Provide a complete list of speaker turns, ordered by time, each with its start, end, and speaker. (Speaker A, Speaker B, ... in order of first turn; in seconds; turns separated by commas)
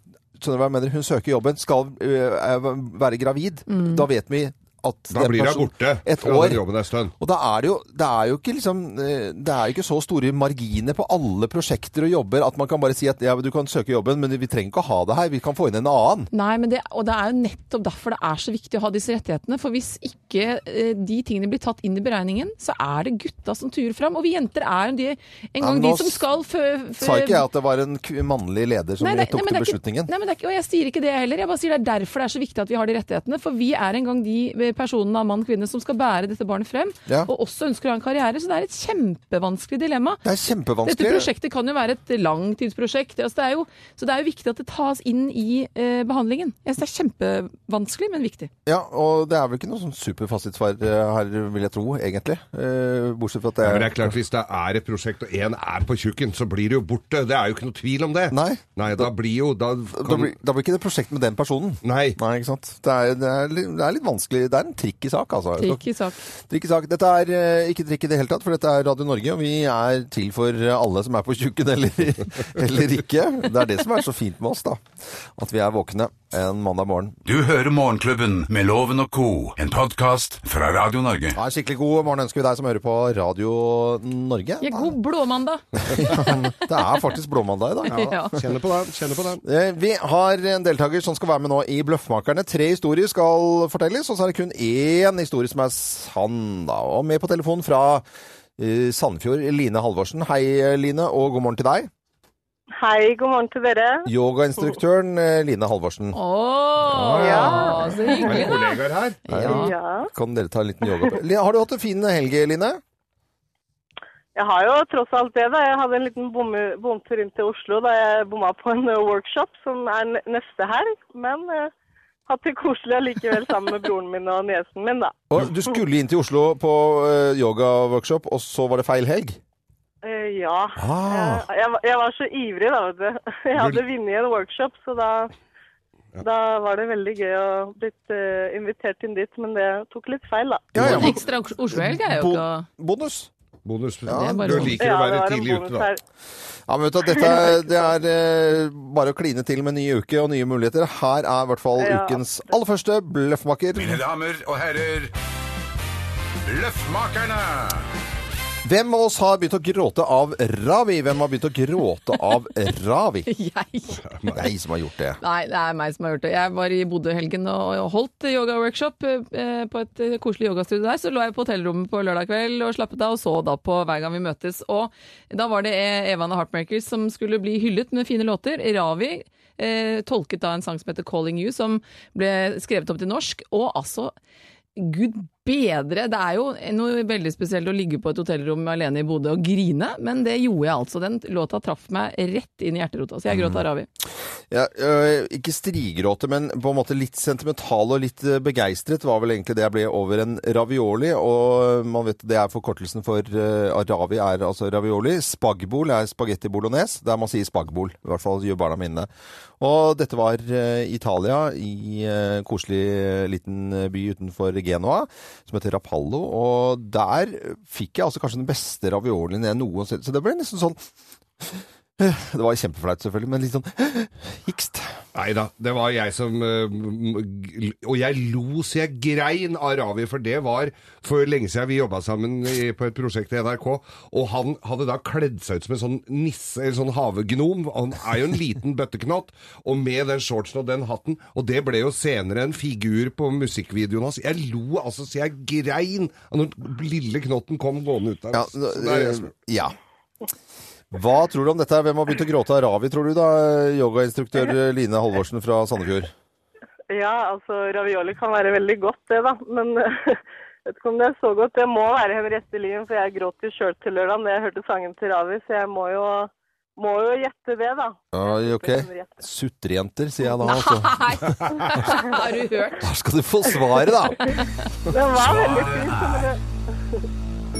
Speaker A: 0.3-6.6, Speaker B: 3.7-4.0, Speaker C: 5.1-7.1, Speaker A: 7.2-16.3, Speaker B: 16.3-27.4, Speaker A: 25.6-26.2, Speaker A: 27.0-30.1, Speaker B: 29.0-40.2, Speaker A: 40.2-41.3, Speaker B: 40.8-48.5, Speaker A: 48.6-54.1, Speaker C: 53.6-60.3, Speaker A: 58.3-59.1, Speaker A: 59.9-65.8, Speaker C: 61.8-62.2, Speaker B: 65.6-66.2, Speaker A: 66.5-77.2, Speaker D: 77.2-81.4, Speaker A: 81.3-84.9, Speaker B: 84.6-86.5, Speaker A: 85.8-88.4, Speaker B: 87.9-88.3, Speaker C: 88.3-89.4, Speaker A: 89.4-98.0, Speaker A: 98.6-101.9, Speaker E: 102.8-104.1, Speaker A: 104.0-106.2, Speaker B: 106.1-109.7, Speaker A: 106.9-107.7, Speaker C: 106.9-107.7, Speaker E: 107.2-108.5, Speaker C: 108.2-109.3, Speaker A: 109.3-112.8, Speaker E: 109.3-110.1, Speaker E: 114.3-121.7, Speaker E: 122.3-125.2, Speaker A: 125.3-129.4, Speaker E: 130.0-135.3, Speaker A: 130.8-131.4, Speaker C: 133.6-133.8, Speaker E: 136.2-141.1, Speaker A: 140.7-143.3, Speaker B: 140.8-142.7, Speaker C: 143.6-145.9, Speaker A: 144.1-144.8, Speaker B: 144.1-144.8, Speaker E: 144.8-146.0, Speaker A: 146.7-154.0, Speaker E: 151.8-152.2, Speaker D: 153.8-155.1, Speaker D: 156.4-157.8, Speaker A: 158.6-163.3, Speaker B: 163.3-164.0, Speaker C: 164.1-164.4, Speaker A: 164.3-165.2, Speaker B: 165.2-184.1, Speaker B: 184.8-193.9, Speaker A: 193.3-193.6, Speaker A: 194.5-209.1, Speaker A: 209.6-220.8, Speaker A: 221.4-225.0, Speaker C: 225.1-249.3, Speaker A: 248.3-249.7, Speaker A: 250.9-256.1, Speaker E: 256.9-269.1, Speaker A: 268.1-271.2, Speaker B: 270.4-272.8, Speaker A: 272.8-274.3, Speaker E: 274.9-276.4, Speaker D: 275.1-276.3